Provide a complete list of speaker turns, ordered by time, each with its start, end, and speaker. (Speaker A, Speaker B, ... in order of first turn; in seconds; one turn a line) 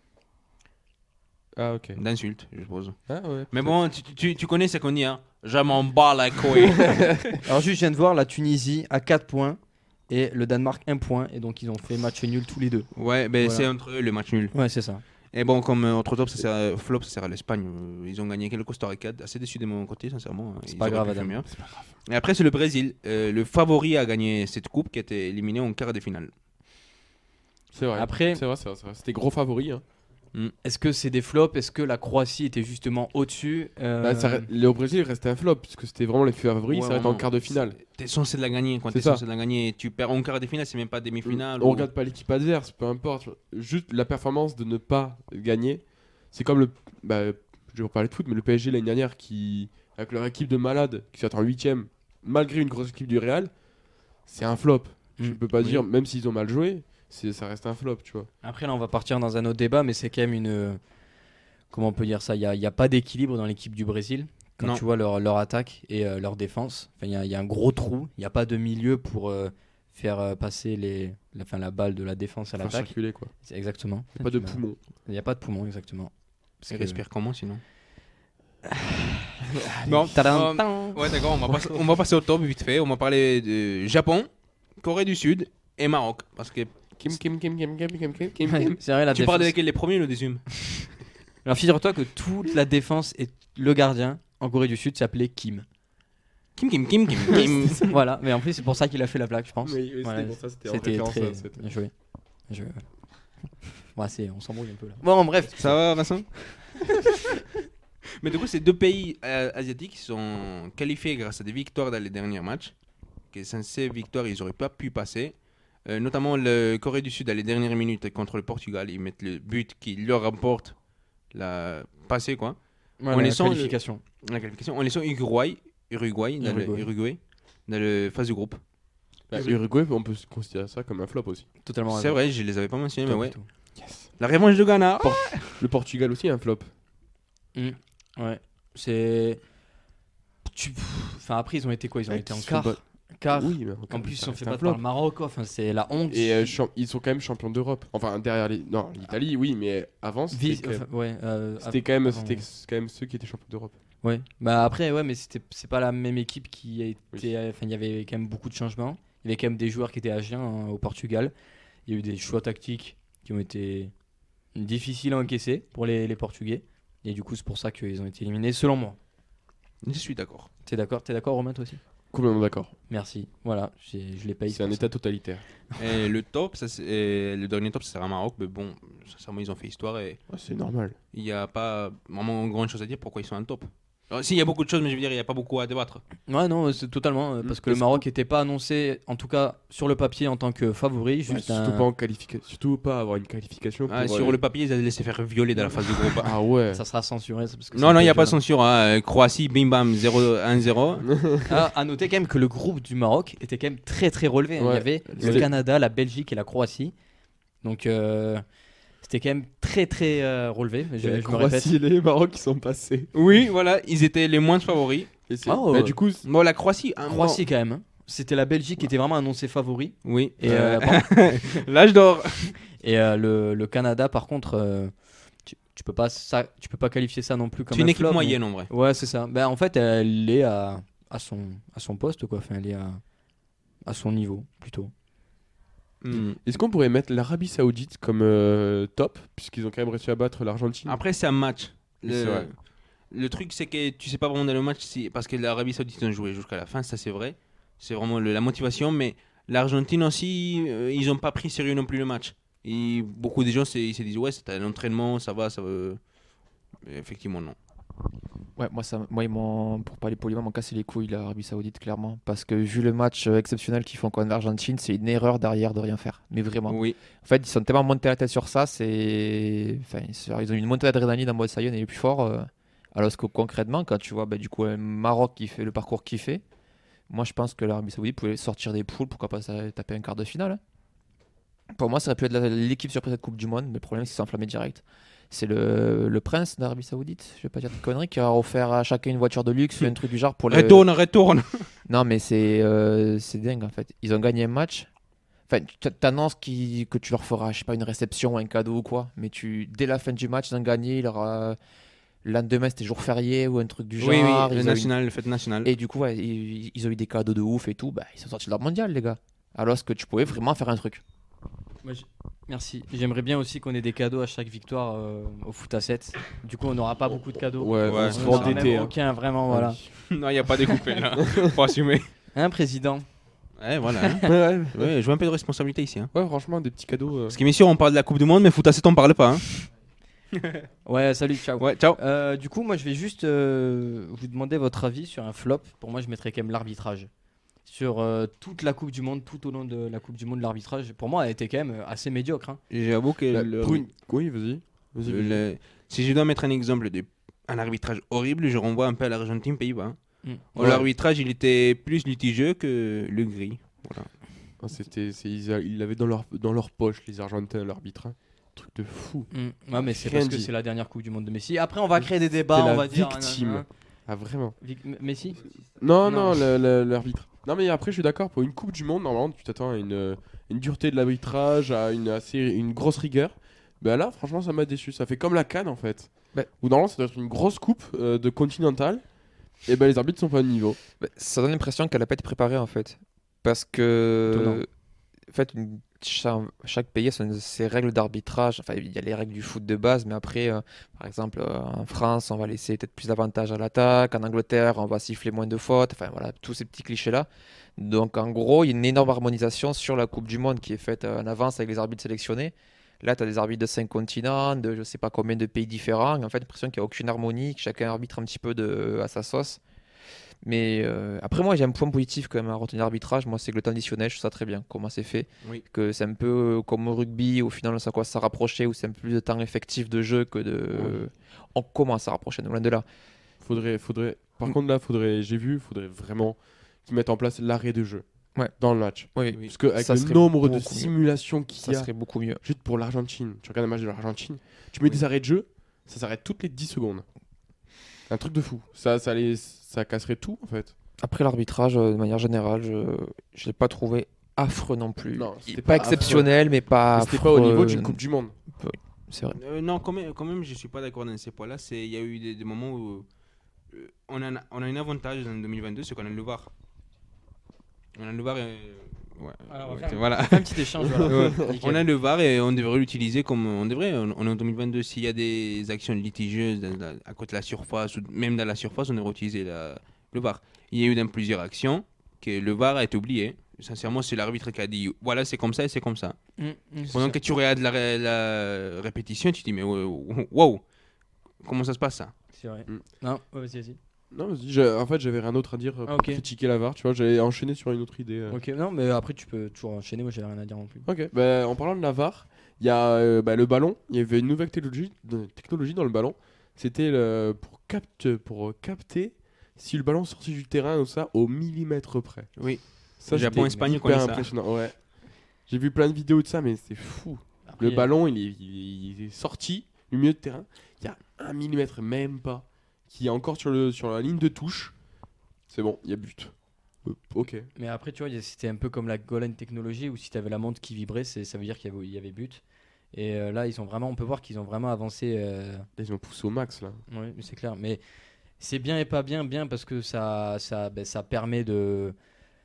Speaker A: 1.6-2.0
Speaker B: 2.0-3.0
Speaker A: 3.1-3.8
Speaker B: 3.5-7.4
Speaker A: 6.8-7.3
Speaker C: 7.4-13.7
Speaker B: 12.9-14.6
Speaker C: 14.5-15.0
Speaker B: 15.3-26.3
Speaker C: 20.7-21.4
Speaker A: 27.7-29.8
Speaker C: 27.9-28.4
Speaker C: 30.6-34.5
Speaker A: 34.0-37.8
Speaker B: 36.7-41.9
Speaker A: 38.9-39.2
Speaker A: 41.2-53.5
Speaker A: 54.3-58.3
Speaker C: 58.4-60.8
Speaker C: 61.7-77.0
Speaker A: 72.6-73.3
Speaker A: 74.2-74.8
Speaker B: 76.7-77.6
Speaker C: 78.7-79.5
Speaker A: 79.5-80.1
Speaker B: 79.9-84.3
Speaker C: 80.1-81.8
Speaker B: 84.8-86.7
Speaker A: 87.0-88.8
Speaker C: 88.5-89.5
Speaker B: 89.1-90.4
Speaker C: 91.5-95.7
Speaker B: 96.6-97.9
Speaker C: 97.3-101.9
Speaker A: 99.6-101.7
Speaker C: 102.5-102.8
Speaker C: 103.9-105.8
Speaker B: 105.5-106.9
Speaker B: 108.2-112.7
Speaker B: 113.3-115.3
Speaker B: 115.9-120.8
Speaker B: 121.3-122.6
Speaker C: 123.0-124.0
Speaker B: 123.1-128.6
Speaker C: 126.4-126.9
Speaker A: 129.3-131.5
Speaker C: 131.6-132.2
Speaker B: 131.9-133.4
Speaker C: 133.1-133.5
Speaker A: 133.8-134.1
Speaker B: 134.2-135.6
Speaker A: 135.0-136.7
Speaker C: 137.6-139.4
Speaker C: 140.5-146.6
Speaker A: 142.1-142.8
Speaker A: 143.3-144.8
Speaker A: 146.1-150.8
Speaker C: 150.3-152.4
Speaker A: 151.6-153.8
Speaker C: 154.0-161.3
Speaker C: 161.9-163.9
Speaker C: 164.6-169.0
Speaker B: 169.8-170.5
Speaker C: 170.7-171.8
Speaker A: 172.1-172.7
Speaker C: 172.9-174.9
Speaker A: 174.5-175.4
Speaker B: 175.8-180.2
Speaker A: 180.3-181.0
Speaker B: 181.1-186.0
Speaker C: 186.3-191.9
Speaker A: 187.4-188.0
Speaker A: 191.3-194.4
Speaker B: 193.9-196.3
Speaker C: 195.6-196.2
Speaker A: 196.2-196.8
Speaker C: 196.7-198.4
Speaker B: 197.7-201.1
Speaker A: 201.1-201.5
Speaker C: 201.5-206.9
Speaker A: 204.6-205.5
Speaker B: 205.2-205.5
Speaker C: 207.6-208.4
Speaker C: 209.0-211.7
Speaker A: 211.0-213.1
Speaker B: 213.1-215.1
Speaker A: 215.3-216.2
Speaker C: 215.5-216.0
Speaker B: 216.2-217.4
Speaker C: 217.1-221.6
Speaker B: 220.0-222.6
Speaker C: 222.8-224.9
Speaker C: 225.5-233.0
Speaker B: 227.7-228.7
Speaker C: 233.8-234.9
Speaker B: 236.0-236.4
Speaker A: 236.1-241.0
Speaker B: 240.9-242.5
Speaker A: 242.0-242.5
Speaker B: 243.1-256.0
Speaker B: 256.9-257.6
Speaker D: 258.6-276.4
Speaker B: 266.7-267.0
Speaker D: 277.1-280.6
Speaker D: 281.8-290.9
Speaker B: 290.5-291.7
Speaker D: 291.9-294.9
Speaker D: 295.5-301.6
Speaker D: 302.2-304.9
Speaker B: 304.0-305.7
Speaker D: 305.6-311.0
Speaker C: 311.8-319.8
Speaker A: 317.4-319.9
Speaker B: 317.9-318.8
Speaker B: 320.1-322.1
Speaker C: 322.3-323.1
Speaker B: 323.6-326.1
Speaker A: 324.2-324.9
Speaker A: 326.1-327.4
Speaker B: 327.3-329.7
Speaker B: 330.4-330.7
Speaker C: 330.9-337.1
Speaker B: 331.6-332.0
Speaker C: 337.7-342.6
Speaker B: 342.7-343.9
Speaker A: 343.3-345.4
Speaker B: 345.1-350.0
Speaker B: 350.5-354.1
Speaker A: 350.6-350.9
Speaker A: 354.6-360.5
Speaker C: 359.3-363.7
Speaker A: 362.0-364.6
Speaker C: 364.6-365.5
Speaker A: 365.8-379.0
Speaker C: 366.0-366.4
Speaker A: 379.6-380.8
Speaker D: 381.0-384.7
Speaker C: 384.3-384.6
Speaker D: 385.3-409.6
Speaker D: 410.4-422.9
Speaker A: 420.7-421.0
Speaker A: 423.4-431.9
Speaker D: 429.1-430.9
Speaker D: 431.6-432.4
Speaker A: 432.4-437.1
Speaker A: 438.1-440.7
Speaker D: 441.0-448.0
Speaker A: 445.1-446.4
Speaker A: 446.9-448.3
Speaker D: 448.6-449.4
Speaker B: 449.4-453.1
Speaker B: 453.7-456.5
Speaker B: 458.0-476.2
Speaker C: 459.5-461.9
Speaker A: 460.9-461.4
Speaker C: 476.4-477.2
Speaker B: 476.9-480.6
Speaker B: 481.4-482.1
Speaker C: 482.3-483.8
Speaker A: 484.1-488.4
Speaker C: 485.9-486.2
Speaker C: 488.3-490.9
Speaker A: 490.9-502.3
Speaker B: 502.4-504.3
Speaker A: 503.0-504.8
Speaker C: 503.1-503.5
Speaker A: 505.5-514.8
Speaker C: 507.5-507.9
Speaker A: 515.5-517.5
Speaker C: 517.6-522.4
Speaker C: 522.9-525.7
Speaker A: 525.8-526.8
Speaker C: 526.9-527.8
Speaker C: 528.4-532.0